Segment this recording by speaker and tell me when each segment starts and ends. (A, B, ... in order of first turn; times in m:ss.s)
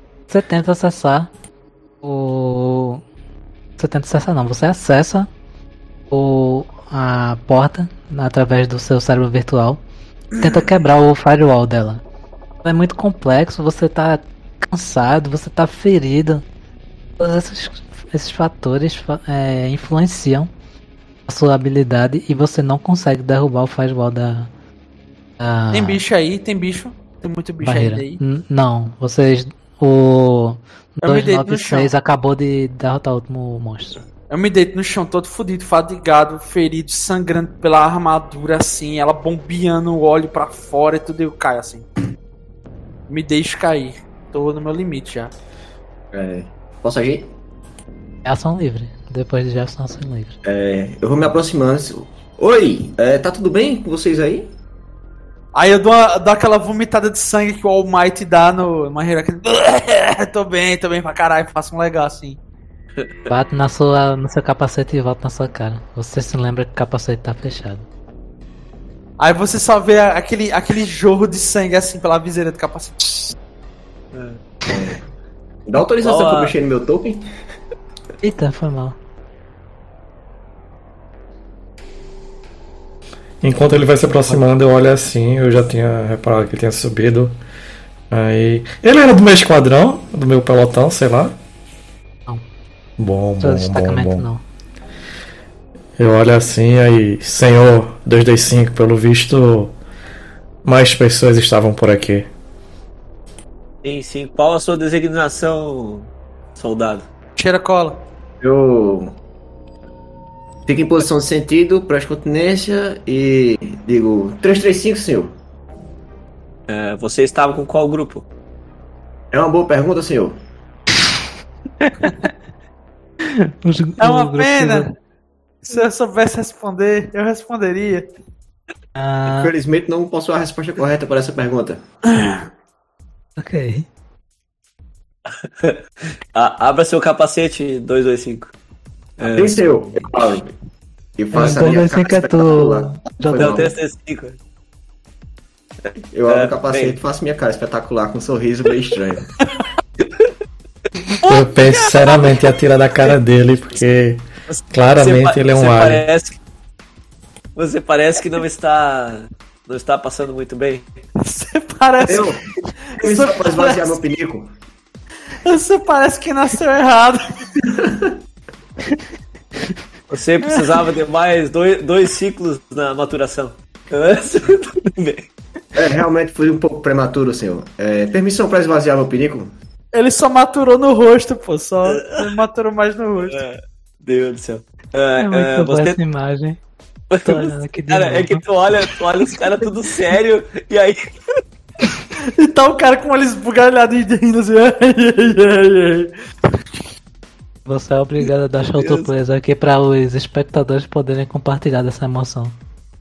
0:00.3-0:01.3 A
0:02.0-0:03.0 A
0:03.8-0:05.3 A
0:06.1-0:09.8 A
0:10.4-0:12.0 A
0:12.6-0:16.4 A
0:17.2-0:20.5 A
0:21.3-0:24.5 A
0:25.4-0:26.0 A
0:25.7-0:28.2 B
0:27.6-0:34.0 A
0:31.0-0:31.9 B
0:34.3-0:41.8 B
0:43.1-0:45.3 B
0:46.1-0:47.3 C
0:48.2-0:50.4 A
0:50.4-0:54.5 C
0:55.5-1:02.4 B
1:03.3-1:07.8 A
1:09.2-1:13.3 B
1:14.1-1:14.4 D
1:14.7-1:15.0 C
1:15.7-1:17.2 C
1:16.0-1:16.5 D
1:18.2-1:19.0 A
1:23.4-1:27.3 E
1:28.1-1:31.3 E
1:33.0-1:34.3 E
1:33.4-1:34.4 A
1:36.0-1:39.7 E
1:40.6-1:42.3 E
1:43.8-1:47.1 D
1:47.4-1:48.0 B
1:48.4-1:49.1 C
1:50.7-1:55.3 C
1:56.7-1:58.2 D
1:59.3-2:00.4 C
2:03.2-2:04.9 A
2:04.0-2:04.9 B
2:05.6-2:08.1 B
2:09.0-2:09.5 A
2:09.2-2:11.8 C
2:12.1-2:12.5 B
2:13.4-2:13.9 A
2:16.3-2:18.5 D
2:19.2-2:19.6 D
2:19.2-2:20.6 C
2:21.2-2:23.7 C
2:21.3-2:23.7 A
2:23.3-2:24.4 D
2:26.1-2:29.3 C
2:26.3-2:27.0 D
2:29.4-2:29.7 B
2:31.2-2:32.4 B
2:31.3-2:36.0 E
2:34.5-2:36.4 D
2:37.6-2:40.9 D
2:41.2-2:44.0 B
2:42.0-2:42.4 C
2:43.0-2:44.5 C
2:45.4-2:47.4 B
2:47.8-2:48.1 C
2:50.1-2:55.3 D
2:55.7-2:59.5 C
2:59.9-3:03.4 B
3:01.8-3:02.4 D
3:03.3-3:06.0 D
3:05.2-3:06.6 A
3:07.1-3:11.1 D
3:07.1-3:08.4 A
3:12.2-3:16.1 B
3:17.6-3:22.5 A
3:18.8-3:19.1 D